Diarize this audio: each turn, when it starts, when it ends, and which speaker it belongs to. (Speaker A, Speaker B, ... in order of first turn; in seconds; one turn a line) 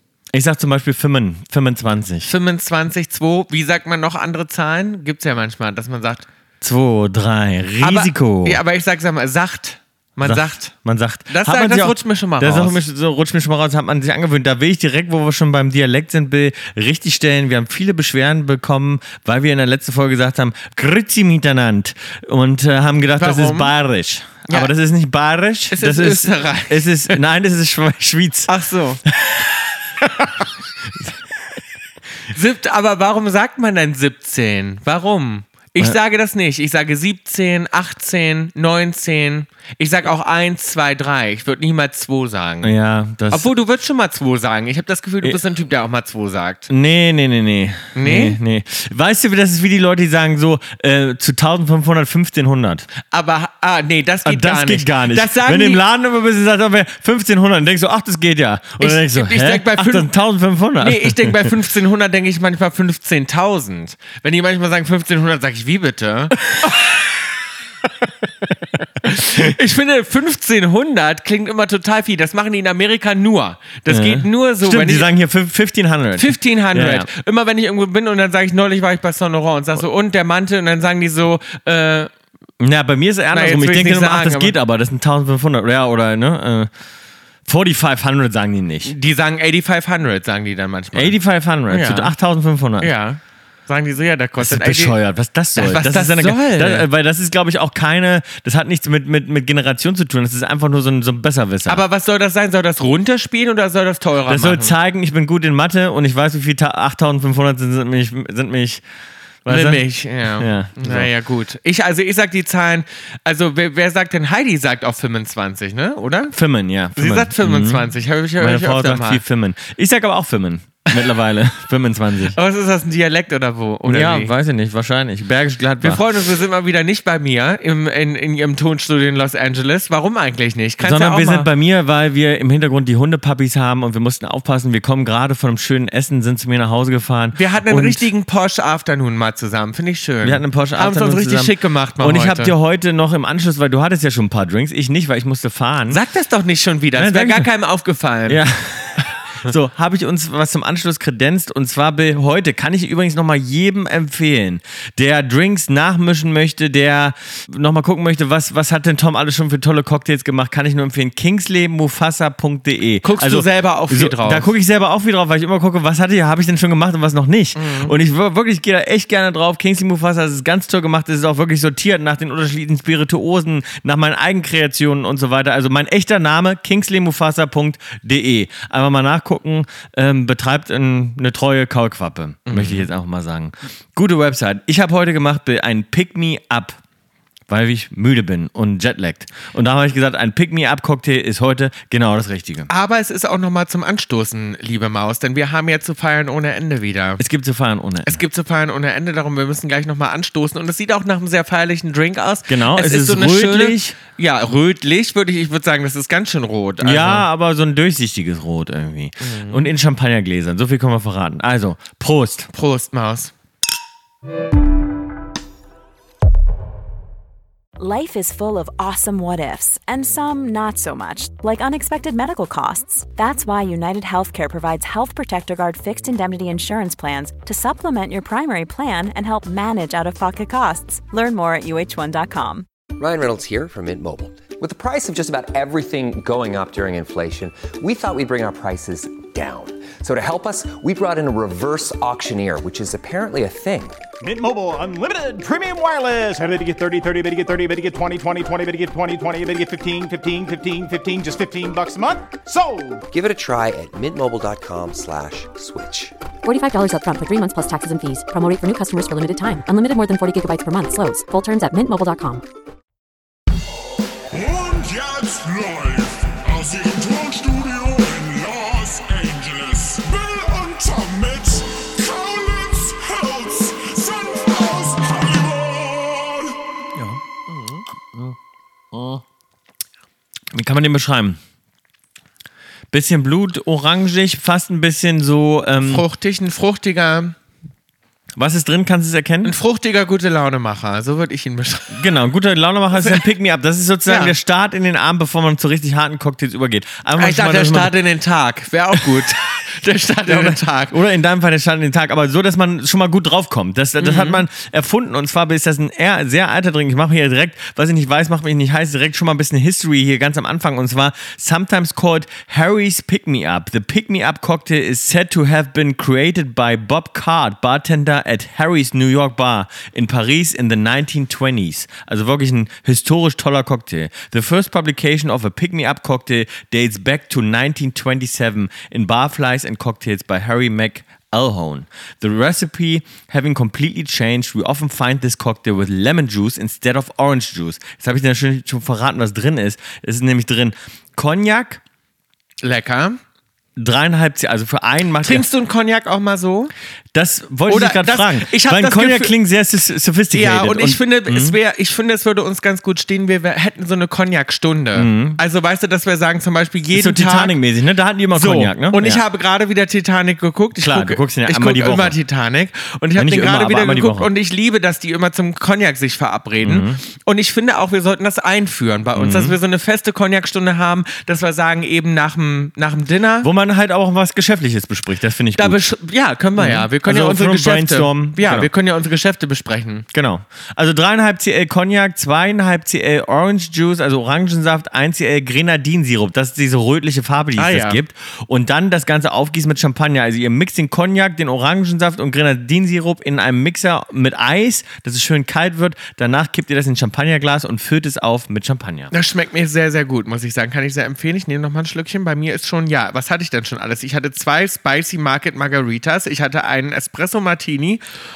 Speaker A: 0.3-2.3
Speaker B: 2.2-6.2
Speaker A: 6.6-8.6
Speaker B: 7.8-10.7
Speaker A: 10.2-28.5
Speaker B: 11.3-12.8
Speaker B: 23.2-23.7
Speaker B: 25.7-27.2
Speaker B: 28.5-29.0
Speaker A: 29.1-29.5
Speaker B: 32.3-42.7
Speaker A: 42.6-43.5
Speaker B: 43.3-46.7
Speaker A: 46.7-52.9
Speaker B: 47.9-48.4
Speaker B: 53.0-55.8
Speaker A: 54.2-61.5
Speaker B: 58.8-60.1
Speaker B: 60.8-66.9
Speaker B: 69.0-75.1
Speaker A: 73.9-77.1
Speaker B: 76.2-82.1
Speaker A: 82.6-86.7
Speaker B: 83.3-84.5
Speaker A: 87.5-88.9
Speaker B: 88.8-91.2
Speaker A: 90.9-92.9
Speaker B: 91.7-92.1
Speaker B: 92.8-95.0
Speaker A: 94.4-101.8
Speaker B: 95.5-96.9
Speaker B: 101.7-104.7
Speaker A: 104.3-108.8
Speaker A: 109.4-111.1
Speaker B: 109.5-116.3
Speaker A: 116.3-122.4
Speaker B: 117.0-119.2
Speaker B: 122.3-124.3
Speaker A: 123.8-126.1
Speaker B: 125.8-131.5
Speaker A: 130.8-138.1
Speaker B: 137.3-142.5
Speaker A: 140.2-146.0
Speaker B: 145.9-148.4
Speaker A: 146.9-147.5
Speaker A: 148.3-186.8
Speaker B: 163.0-164.5
Speaker B: 167.6-167.9
Speaker B: 182.4-182.9
Speaker A: 187.5-192.7
Speaker B: 192.7-197.2
Speaker A: 197.2-198.2
Speaker B: 198.1-207.2
Speaker A: 202.5-203.9
Speaker A: 206.8-212.5
Speaker B: 209.2-209.6
Speaker B: 212.5-213.3
Speaker C: 217.8-232.6
Speaker D: 233.0-244.0
Speaker E: 244.2-253.0
Speaker D: 253.1-256.1
Speaker F: 256.4-262.4
Speaker G: 264.3-276.6
Speaker A: 276.9-278.3
Speaker A: 278.9-279.2
Speaker A: 280.5-281.4
Speaker A: 282.9-286.0
Speaker B: 285.8-287.3
Speaker A: 288.4-289.5
Speaker B: 289.4-292.0
Speaker A: 291.9-297.9
Speaker B: 292.9-293.2
Speaker B: 294.0-294.3
Speaker B: 297.2-300.9
Speaker A: 299.0-299.2
Speaker A: 300.2-341.8
Speaker B: 304.0-304.4
Speaker B: 342.6-343.2
Speaker A: 343.8-345.4
Speaker B: 345.2-346.7
Speaker A: 347.1-351.6
Speaker B: 347.7-349.3
Speaker B: 350.3-357.6
Speaker A: 354.9-355.4
Speaker A: 356.9-359.2
Speaker B: 358.3-373.5
Speaker A: 360.8-362.1
Speaker A: 363.1-364.3
Speaker A: 366.6-367.0
Speaker A: 369.1-369.6
Speaker A: 373.4-375.8
Speaker B: 375.6-380.1
Speaker A: 376.6-378.7
Speaker A: 380.1-399.1
Speaker B: 387.6-388.0
Speaker B: 399.1-408.0